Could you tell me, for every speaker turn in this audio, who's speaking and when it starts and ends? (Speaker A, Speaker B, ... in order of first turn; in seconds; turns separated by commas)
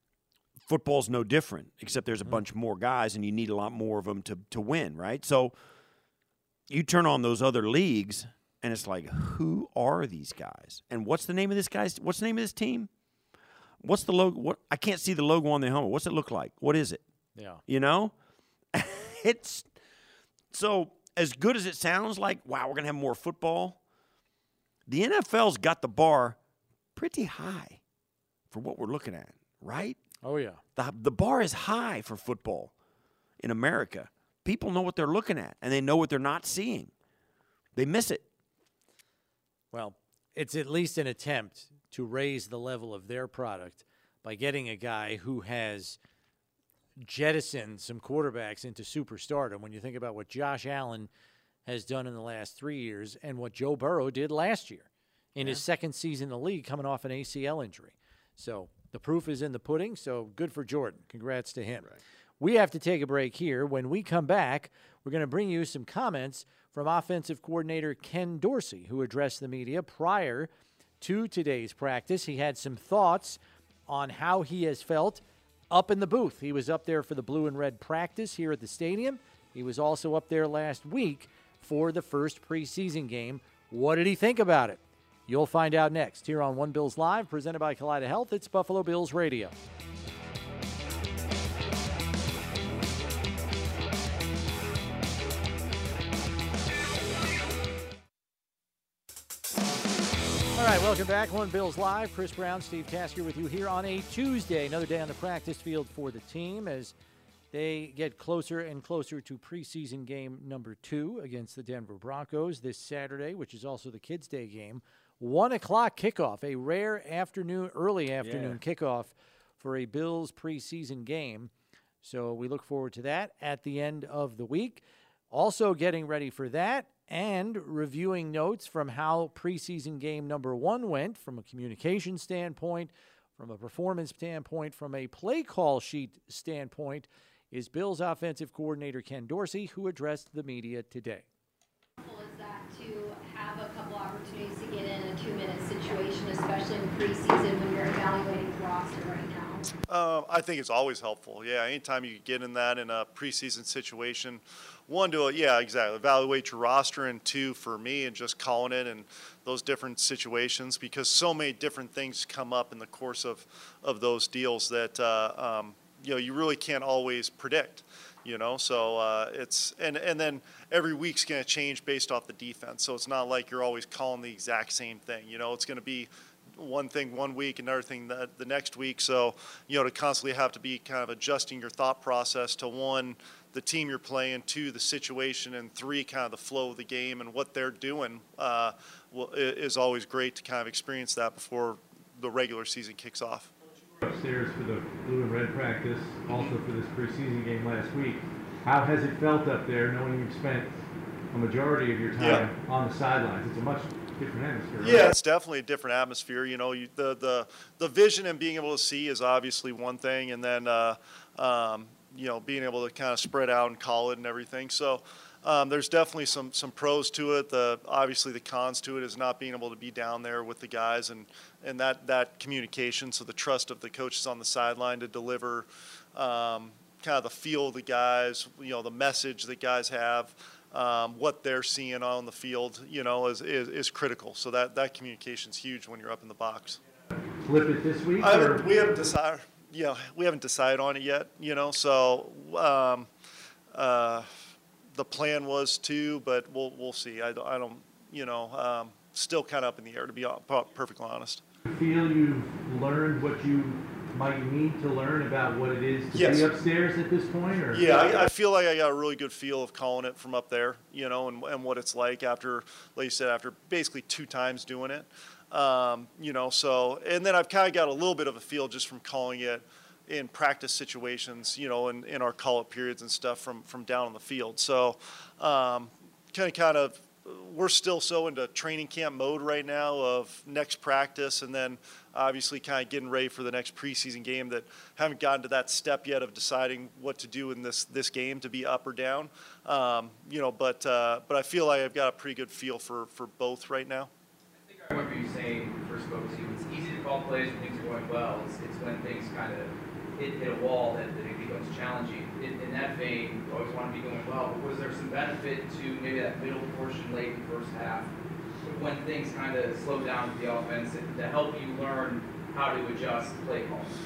Speaker A: 0.6-5.5, Speaker A: 6.7-12.9, Speaker A: 13.8-17.0, Speaker B: 17.4-17.6, Speaker A: 17.7-18.1, Speaker A: 18.7-19.7, Speaker A: 20.5-23.8, Speaker A: 24.9-26.4, Speaker A: 27.0-27.8, Speaker A: 28.5-30.0, Speaker B: 30.2-30.6, Speaker A: 30.8-32.7, Speaker A: 33.4-36.9, Speaker A: 37.8-38.2, Speaker B: 39.7-46.0, Speaker B: 47.0-51.1, Speaker B: 51.7-61.9, Speaker B: 62.4-70.5, Speaker B: 71.0-89.6, Speaker B: 100.5-106.9, Speaker B: 107.5-121.5, Speaker A: 118.2-118.6, Speaker B: 122.0-141.3, Speaker C: 142.0-149.7, Speaker D: 149.9-193.5, Speaker E: 194.0-200.8, Speaker E: 201.3-205.1, Speaker D: 202.2-202.5, Speaker D: 204.8-236.8, Speaker E: 237.4-238.7, Speaker D: 238.2-243.1, Speaker D: 243.7-244.3, Speaker D: 244.9-251.4, Speaker E: 251.7-257.9, Speaker D: 256.1-256.5, Speaker D: 257.7-294.1, Speaker F: 294.7-308.1, Speaker F: 308.6-313.9